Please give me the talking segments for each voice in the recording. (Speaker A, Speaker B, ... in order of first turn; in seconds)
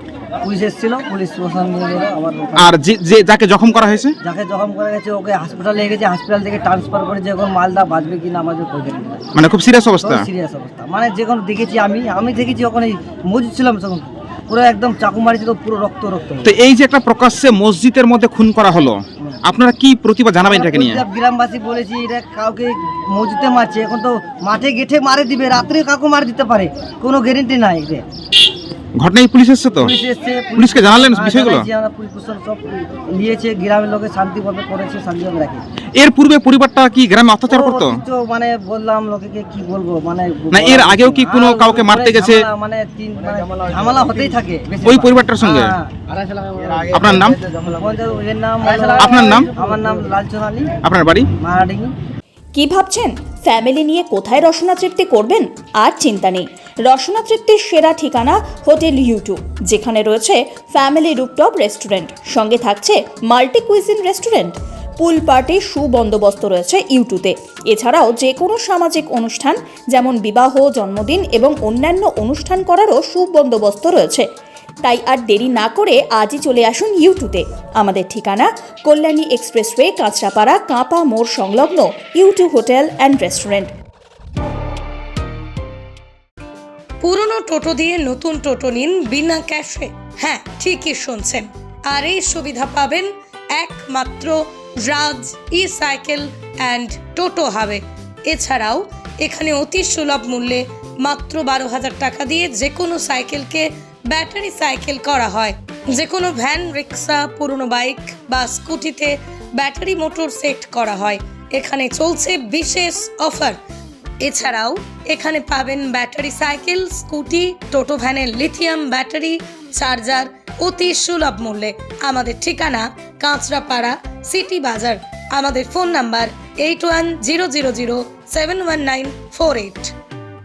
Speaker A: 0.4-2.7, 4.2-9.3, 10.0-16.5, 20.4-28.0, 29.8-35.6, 37.5-45.9, 47.6-50.7, 51.4-51.9
Speaker B: 2.6-4.1, 9.3-10.3, 16.4-21.0, 29.0-29.9, 30.6-31.7, 36.0-38.0, 40.5-42.4, 44.8-45.7, 46.9-47.4, 49.0-49.5, 50.8-51.3
Speaker C: 52.5-74.3, 74.8-83.7
Speaker D: 87.0-113.6, 114.2-129.9